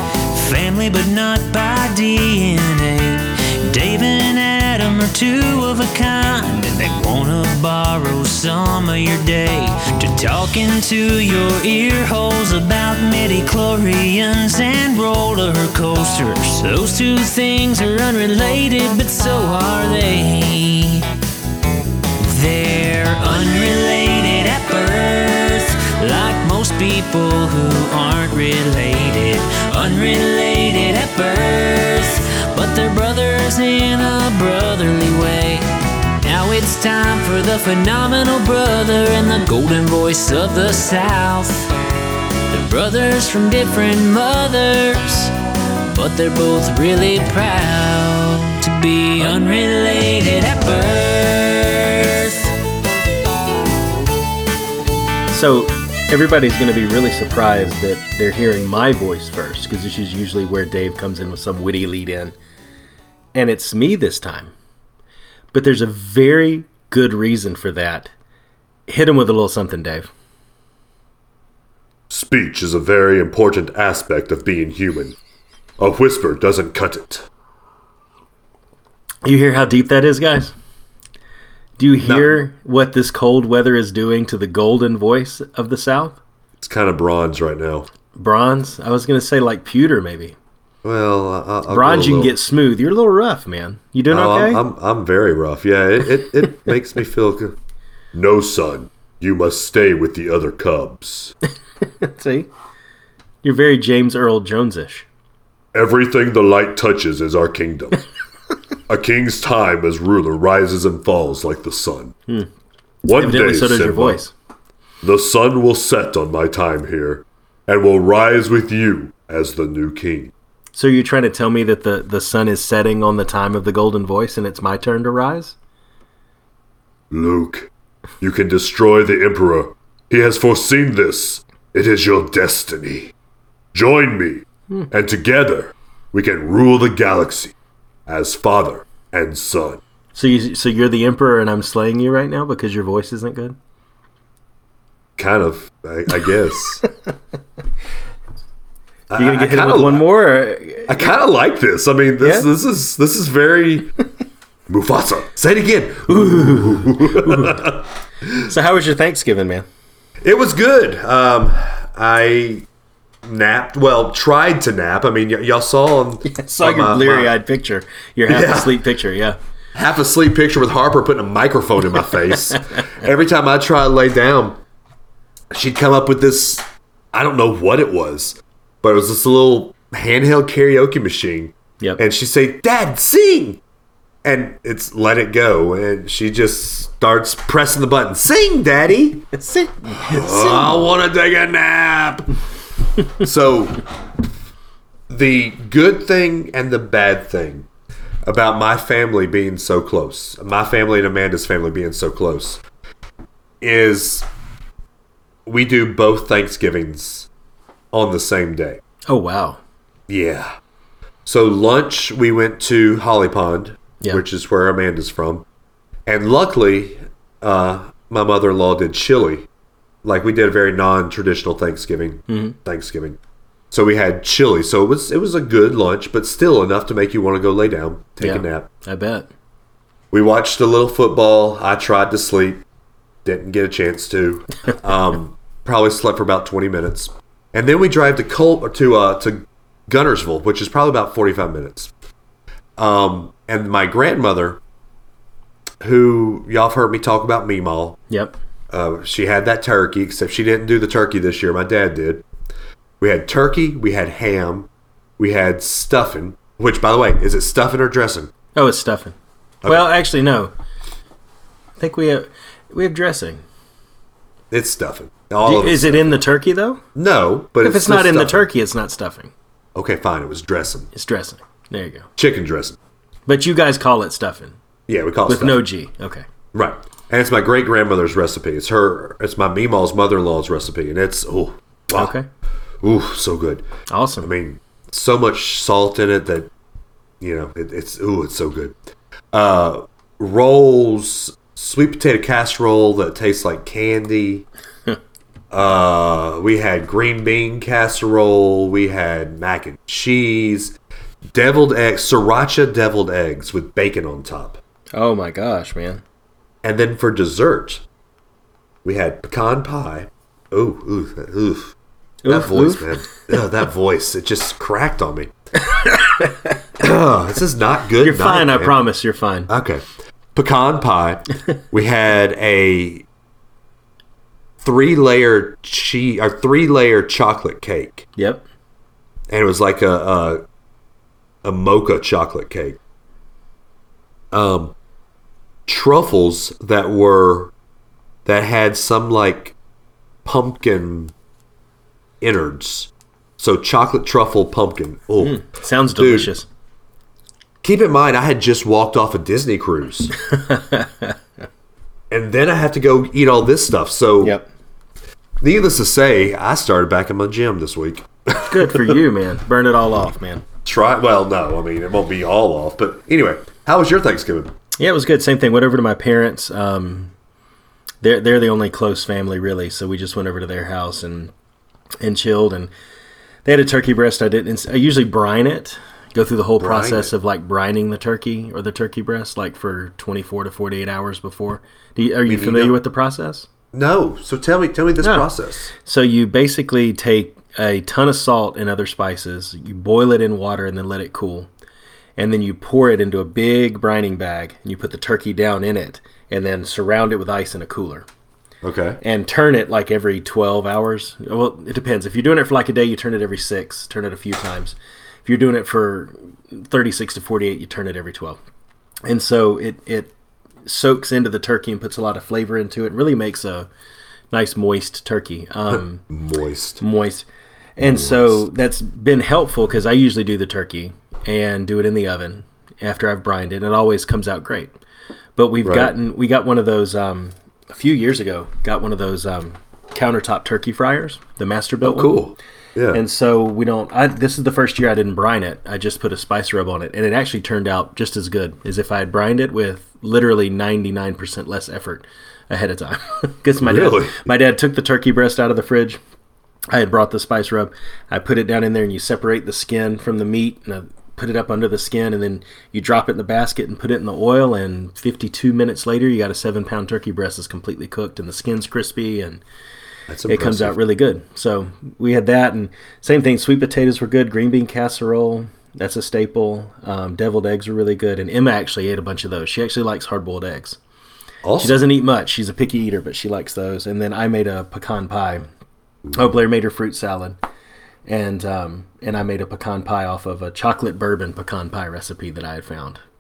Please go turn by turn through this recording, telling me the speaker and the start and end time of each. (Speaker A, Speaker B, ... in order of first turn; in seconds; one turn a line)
Speaker A: 0.3-21.1
Speaker A: 22.2-35.7
Speaker A: 36.2-41.7
Speaker A: 42.5-45.3
Speaker A: 45.9-52.6
Speaker B: 55.3-62.4
Speaker B: 63.4-64.5
Speaker B: 65.5-68.1
Speaker B: 68.9-70.1
Speaker C: 72.1-75.2
Speaker C: 75.8-77.3
Speaker B: 79.2-80.5
Speaker B: 81.8-86.2
Speaker C: 82.0-82.4
Speaker C: 86.6-87.9
Speaker B: 88.2-90.4
Speaker C: 90.8-92.4
Speaker B: 91.7-94.6
Speaker C: 94.1-97.6
Speaker C: 98.1-101.3
Speaker B: 102.0-102.5
Speaker B: 103.4-105.1
Speaker C: 105.7-108.0
Speaker C: 108.9-112.2
Speaker C: 113.0-114.2
Speaker B: 113.1-114.3
Speaker C: 115.0-120.3
Speaker B: 120.7-125.6
Speaker C: 127.1-127.7
Speaker C: 128.2-133.1
Speaker C: 133.7-137.5
Speaker C: 138.1-139.8
Speaker B: 140.1-143.6
Speaker C: 145.2-146.8
Speaker C: 149.1-150.1
Speaker B: 149.2-151.1
Speaker C: 150.9-153.9
Speaker B: 152.2-152.5
Speaker C: 154.7-158.5
Speaker B: 156.1-157.7
Speaker B: 158.4-159.7
Speaker C: 160.2-162.7
Speaker C: 163.2-167.3
Speaker B: 166.2-169.4
Speaker C: 168.3-168.8
Speaker C: 169.7-174.6
Speaker C: 175.5-183.6
Speaker C: 184.2-189.3
Speaker B: 189.3-190.8
Speaker C: 189.9-192.3
Speaker C: 193.1-193.8
Speaker C: 195.1-197.7
Speaker C: 198.2-202.6
Speaker C: 203.6-204.3
Speaker C: 205.5-207.3
Speaker C: 207.9-208.8
Speaker B: 209.1-209.6
Speaker C: 210.1-210.5
Speaker C: 211.3-215.4
Speaker C: 216.1-219.5
Speaker C: 220.0-223.2
Speaker B: 222.3-222.6
Speaker C: 223.7-228.7
Speaker B: 228.2-229.3
Speaker C: 230.1-232.6
Speaker C: 233.2-241.9
Speaker C: 242.8-244.6
Speaker C: 245.8-248.0
Speaker B: 248.1-248.3
Speaker C: 248.7-252.2
Speaker C: 253.0-258.3
Speaker B: 258.6-260.5
Speaker C: 259.6-259.9
Speaker B: 261.8-263.4
Speaker C: 264.5-266.2
Speaker B: 265.4-266.8
Speaker C: 266.9-268.5
Speaker B: 267.6-269.3
Speaker C: 269.8-270.9
Speaker B: 270.9-272.1
Speaker C: 272.2-272.8
Speaker B: 273.3-274.6
Speaker C: 274.9-275.6
Speaker B: 275.3-276.2
Speaker C: 276.5-282.1
Speaker B: 281.9-282.3
Speaker C: 282.8-283.7
Speaker B: 283.9-284.3
Speaker C: 284.2-286.5
Speaker C: 287.2-288.8
Speaker C: 289.3-294.5
Speaker C: 295.5-300.8
Speaker C: 301.3-304.6
Speaker B: 304.9-306.0
Speaker C: 306.6-307.8
Speaker C: 308.8-311.7
Speaker B: 312.2-313.0
Speaker C: 312.3-315.3
Speaker C: 316.8-318.8
Speaker B: 318.0-319.5
Speaker C: 319.5-319.8
Speaker C: 320.4-323.1
Speaker C: 324.6-328.1
Speaker B: 328.2-328.4
Speaker C: 329.3-330.4
Speaker C: 331.4-332.8
Speaker C: 334.3-334.7
Speaker C: 335.7-337.5
Speaker C: 338.2-339.6
Speaker C: 340.2-341.1
Speaker C: 342.2-345.4
Speaker B: 345.2-346.5
Speaker C: 346.0-346.3
Speaker C: 347.6-350.1
Speaker B: 350.4-351.1
Speaker C: 352.1-354.4
Speaker B: 354.2-354.5
Speaker C: 355.4-359.0
Speaker B: 358.4-360.4
Speaker C: 360.6-364.5
Speaker B: 364.8-367.1
Speaker B: 368.0-371.3
Speaker B: 372.0-372.7
Speaker B: 373.4-383.5
Speaker C: 376.6-377.1
Speaker C: 382.3-382.8
Speaker C: 383.7-385.7
Speaker B: 385.0-385.3
Speaker B: 385.8-391.5
Speaker B: 392.2-398.1
Speaker C: 398.6-399.0
Speaker B: 399.0-408.4
Speaker B: 409.1-410.1
Speaker B: 410.7-413.7
Speaker B: 414.3-416.1
Speaker C: 415.7-416.8
Speaker B: 416.8-417.3
Speaker B: 417.8-424.7
Speaker C: 417.9-418.4
Speaker B: 425.4-432.2
Speaker C: 425.6-425.9
Speaker C: 431.8-433.0
Speaker B: 432.9-446.0
Speaker C: 443.6-444.3
Speaker B: 446.7-459.4
Speaker C: 460.1-460.8
Speaker B: 460.3-470.8
Speaker C: 471.4-471.8
Speaker B: 471.6-475.5
Speaker B: 476.1-477.4
Speaker B: 478.1-483.0